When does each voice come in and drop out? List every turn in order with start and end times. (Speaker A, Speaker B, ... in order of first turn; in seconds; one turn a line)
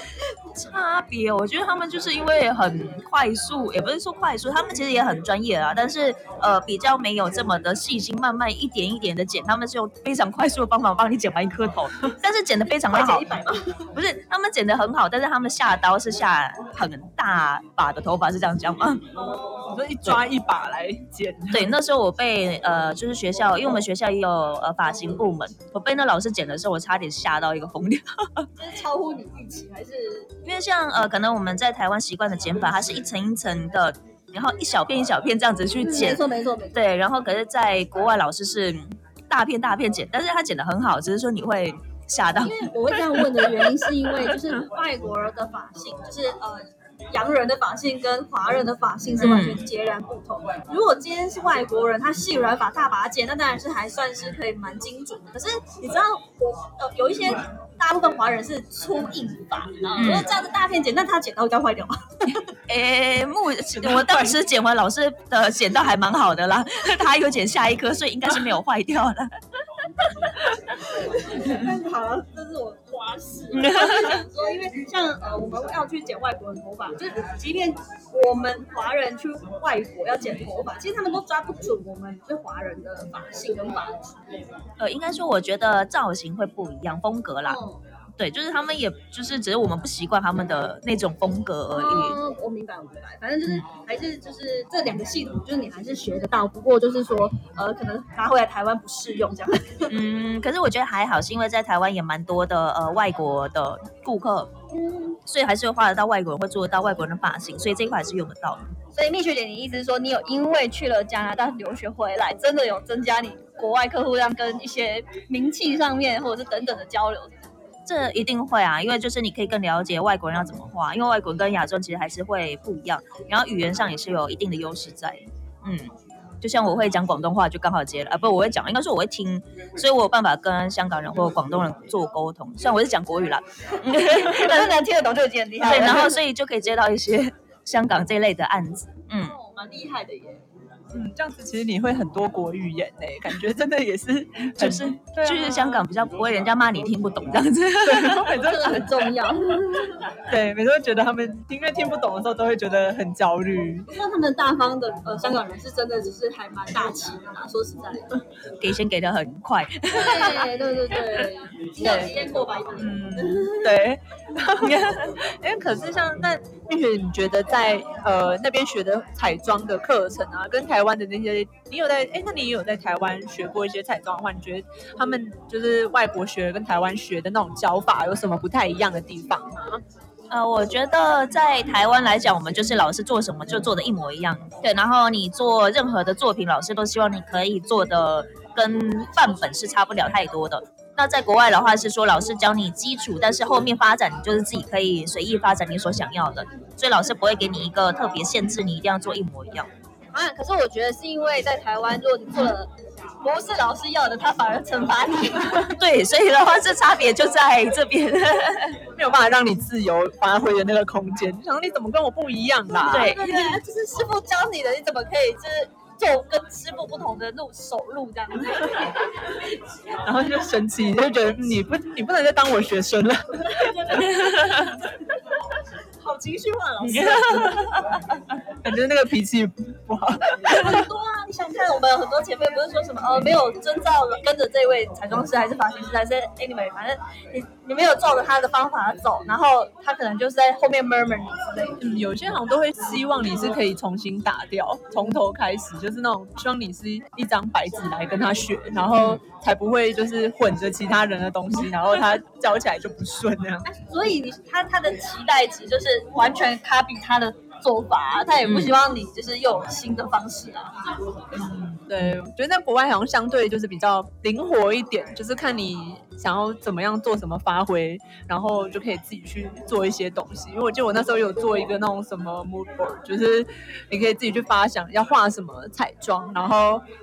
Speaker A: 0.5-13.3
Speaker B: 12.8-13.8
Speaker A: 13.9-19.0
Speaker B: 19.1-19.8
Speaker C: 19.7-21.7
Speaker A: 21.5-28.5
Speaker B: 28.6-30.3
Speaker A: 30.4-36.2
Speaker B: 35.8-36.8
Speaker A: 36.7-43.7
Speaker B: 42.4-62.5
Speaker A: 49.2-49.6
Speaker A: 60.0-60.3
Speaker A: 62.7-69.3
Speaker C: 63.7-64.4
Speaker B: 70.9-84.2
Speaker A: 73.5-74.2
Speaker A: 84.8-87.6
Speaker B: 87.5-87.8
Speaker A: 88.2-92.2
Speaker B: 91.7-99.9
Speaker A: 99.9-104.5
Speaker B: 104.7-105.2
Speaker A: 105.2-108.7
Speaker B: 109.0-117.3
Speaker A: 117.9-134.8
Speaker B: 134.0-136.2
Speaker A: 135.6-139.3
Speaker B: 139.2-140.4
Speaker C: 140.9-145.8
Speaker A: 144.6-148.4
Speaker C: 147.8-148.9
Speaker B: 148.2-150.0
Speaker C: 150.3-153.9
Speaker B: 153.9-158.2
Speaker A: 158.6-160.6
Speaker B: 159.9-163.8
Speaker C: 161.8-162.1
Speaker C: 162.8-179.8
Speaker A: 164.6-165.1
Speaker A: 180.3-199.7
Speaker B: 200.1-202.7
Speaker B: 203.2-205.7
Speaker A: 205.7-208.8
Speaker C: 208.9-213.1
Speaker B: 212.8-219.0
Speaker A: 212.8-213.6
Speaker C: 220.0-223.7
Speaker B: 223.4-224.8
Speaker A: 224.2-224.7
Speaker B: 226.0-227.7
Speaker A: 226.8-228.0
Speaker C: 228.6-230.8
Speaker B: 230.4-241.8
Speaker C: 241.8-253.7
Speaker B: 253.7-260.8
Speaker A: 258.4-258.8
Speaker C: 261.4-276.8